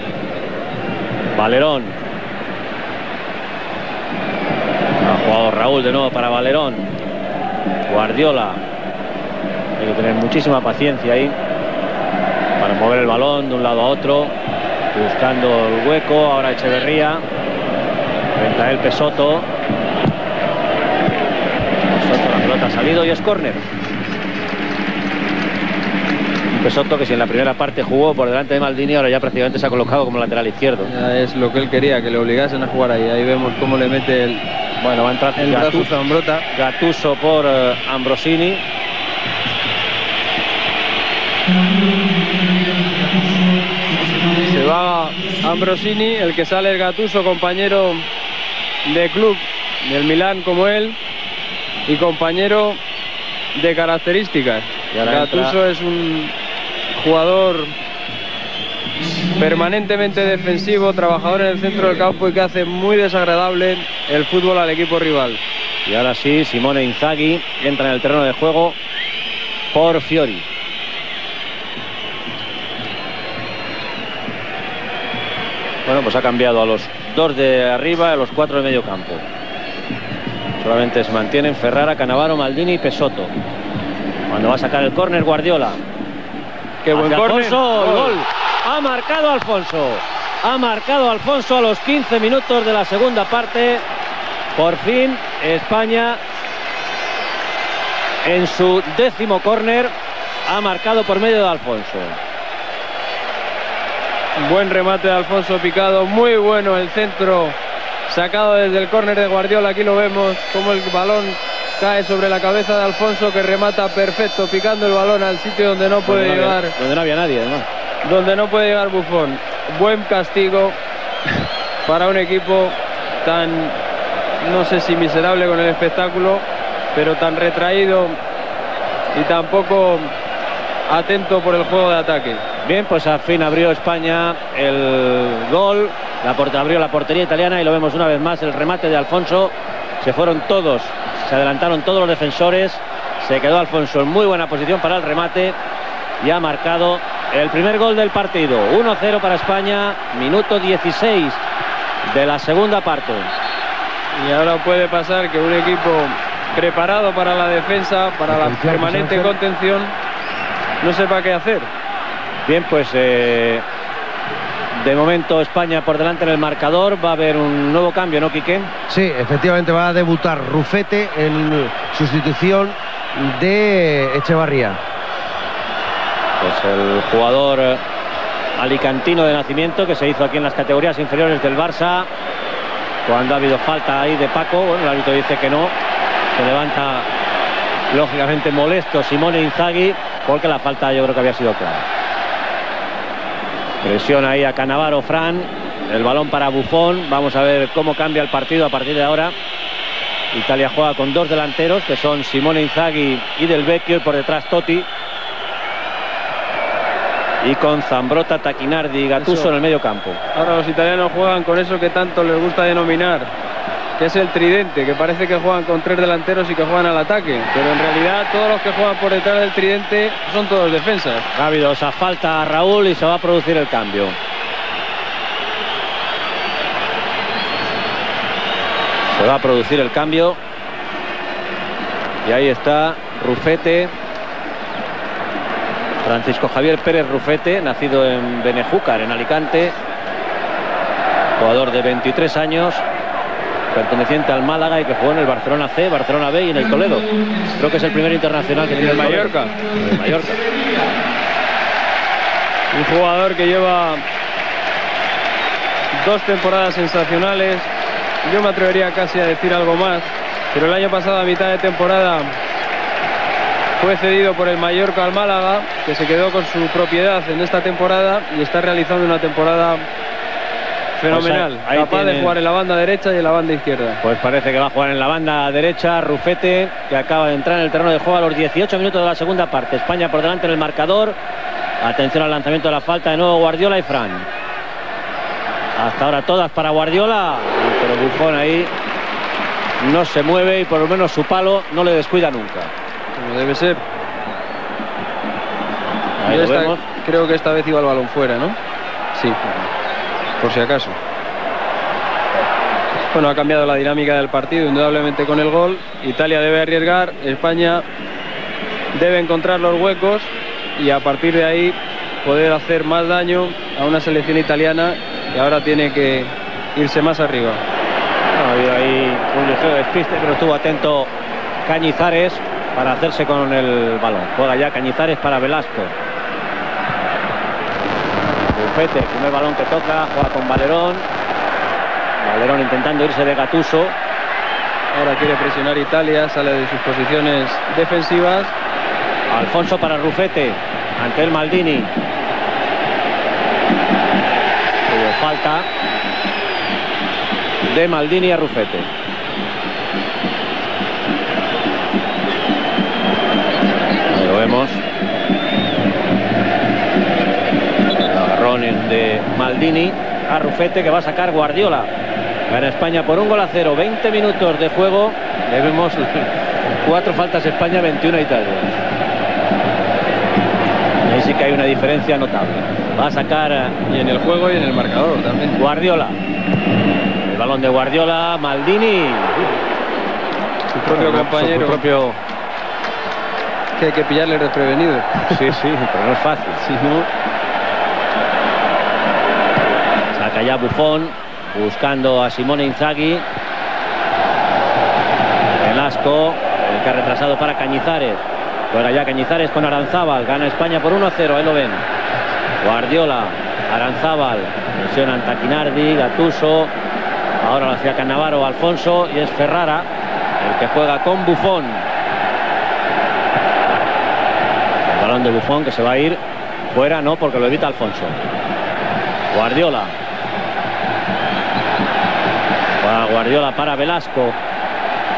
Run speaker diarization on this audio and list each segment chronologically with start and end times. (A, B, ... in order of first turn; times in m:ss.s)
0:01.3-0:02.0 A
0:05.0-0:06.9 A
0:07.9-0:08.6 A
0:09.8-0:11.3 A
0:12.6-0:14.3 A
0:14.9-0:17.2 A
0:18.4-0:19.5 A
0:21.9-0:23.6 A
0:26.5-0:30.9 A
0:30.8-0:34.5 B
0:34.8-0:35.9 A
0:35.4-0:36.4 B
0:36.5-0:38.6 A
0:44.0-0:48.1 B
0:48.8-0:51.0 B
0:51.8-0:52.8 B
0:53.5-0:56.3 B
0:54.9-0:55.6 A
0:56.9-0:57.7 B
0:59.4-1:05.4 B
1:05.8-1:08.8 A
1:09.7-1:10.4 A
1:15.8-1:19.2 A
1:20.6-1:23.3 A
1:24.3-1:25.8 A
1:26.8-1:28.2 B
1:26.9-1:33.8 A
1:34.5-1:36.2 A
1:38.2-1:39.9 A
1:40.4-1:42.2 A
1:44.4-1:47.6 B
1:48.1-1:56.7 B
1:56.0-1:57.7 A
1:58.0-2:00.8 B
2:01.4-2:03.8 B
2:04.4-2:08.2 B
2:09.1-2:10.1 B
2:10.9-2:12.4 B
2:12.6-2:25.6 A
2:26.2-2:31.4 A
2:32.1-2:33.3 A
2:34.1-2:39.9 B
2:38.4-2:39.3 C
2:40.8-2:41.7 B
2:42.4-2:43.6 A
2:44.7-2:48.7 A
2:48.9-2:54.8 C
2:56.4-2:57.8 A
2:58.6-3:02.1 A
3:03.0-3:05.7 A
3:06.3-3:07.1 A
3:07.9-3:11.8 A
3:13.8-3:19.3 A
3:20.3-3:24.9 A
3:27.4-3:30.2 A
3:29.2-3:29.5 B
3:30.3-3:33.3 B
3:34.0-3:41.2 B
3:41.3-3:44.2 A
3:49.1-3:50.4 A
3:52.2-3:53.9 A
3:56.0-3:59.8 A
4:01.4-4:02.8 A
4:03.7-4:10.4 A
4:08.7-4:09.6 B
4:12.7-4:14.0 B
4:15.9-4:17.7 B
4:18.2-4:22.3 B
4:23.8-4:29.8 B
4:31.0-4:34.0 B
4:31.1-4:32.3 A
4:34.0-4:41.2 A
4:41.8-4:44.3 A
4:45.8-4:48.7 A
4:49.8-4:52.7 A
4:53.2-4:53.8 B
4:56.2-4:56.8 A
4:56.2-4:58.6 B
4:59.1-4:59.4 B
5:00.4-5:01.0 B
5:03.1-5:07.8 B
5:08.9-5:17.6 B
5:18.2-5:21.1 A
5:21.6-5:25.9 A
5:28.4-5:31.0 A
5:32.2-5:33.9 A
5:34.9-5:38.5 B
5:39.3-5:41.9 A
5:44.8-5:45.7 A
5:47.6-5:48.9 A
5:54.1-5:54.8 A
5:58.0-6:01.9 A
6:02.5-6:06.3 A
6:06.8-6:08.8 A
6:11.0-6:13.8 A
6:13.9-6:15.6 B
6:15.6-6:16.2 A
6:17.2-6:19.4 A
6:20.7-6:21.8 B
6:20.9-6:22.2 A
6:23.8-6:25.4 B
6:25.3-6:26.6 A
6:26.6-6:27.1 B
6:30.1-6:33.2 A
6:35.6-6:41.8 A
6:42.6-6:46.7 A
6:47.4-6:49.9 A
6:50.4-6:51.8 A
6:54.8-6:58.2 A
6:59.3-6:59.9 A
7:02.8-7:04.4 A